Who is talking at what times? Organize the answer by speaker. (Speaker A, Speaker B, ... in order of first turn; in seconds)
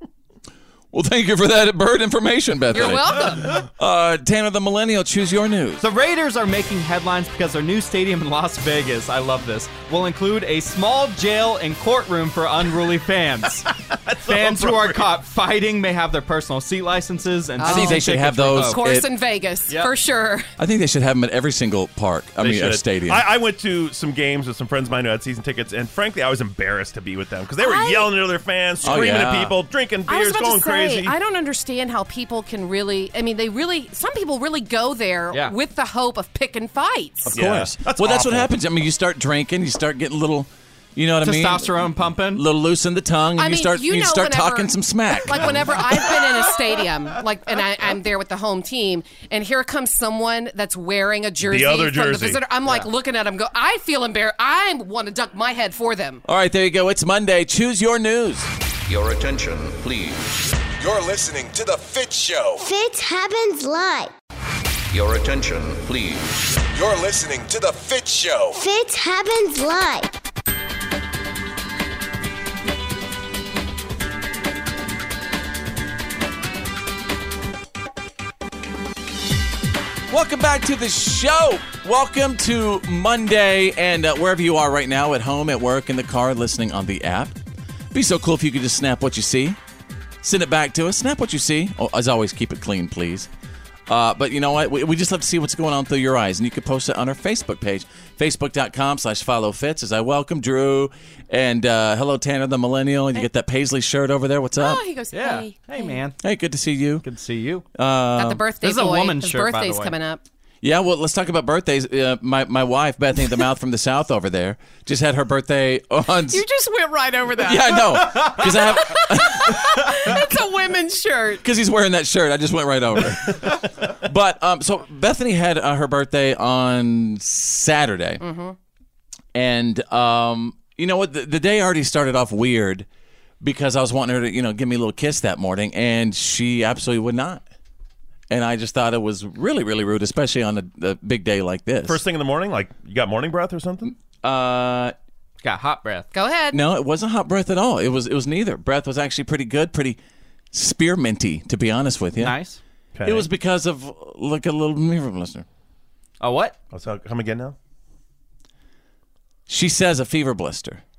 Speaker A: 0.9-5.9, 17.6-19.1, 20.6-23.3, 28.8-29.6, 37.3-46.0, 56.2-58.5, 80.1-87.3, 87.9-89.6, 90.2-93.3, 93.9-104.8, 106.2-107.0, 107.7-108.4, 110.6-116.5, 117.4-120.2, 121.4-128.2, 129.3-132.9, 133.4-137.4, 138.3-142.0, 143.9-144.9, 146.5-150.0, 150.5-152.4, 153.0-155.4, 159.5-160.8
Speaker B: 2.7-3.6, 17.6-20.5, 27.6-28.1, 30.1-37.4, 43.4-56.2, 104.6-106.0, 108.2-110.2, 116.3-121.4, 128.2-128.6, 146.1-146.6
Speaker C: 5.8-13.7, 14.2-18.8, 41.2-42.5, 105.1-106.2, 107.0-107.7, 108.6-110.0, 145.4-146.1, 152.2-152.6, 156.2-156.6
Speaker D: 13.9-15.1, 22.4-31.1, 37.3-38.5, 51.4-52.4, 141.8-143.9, 153.0-153.3, 156.7-157.6
Speaker E: 58.9-60.2, 64.9-66.2
Speaker F: 60.8-62.7, 66.7-68.6
Speaker G: 62.6-64.1, 68.5-70.1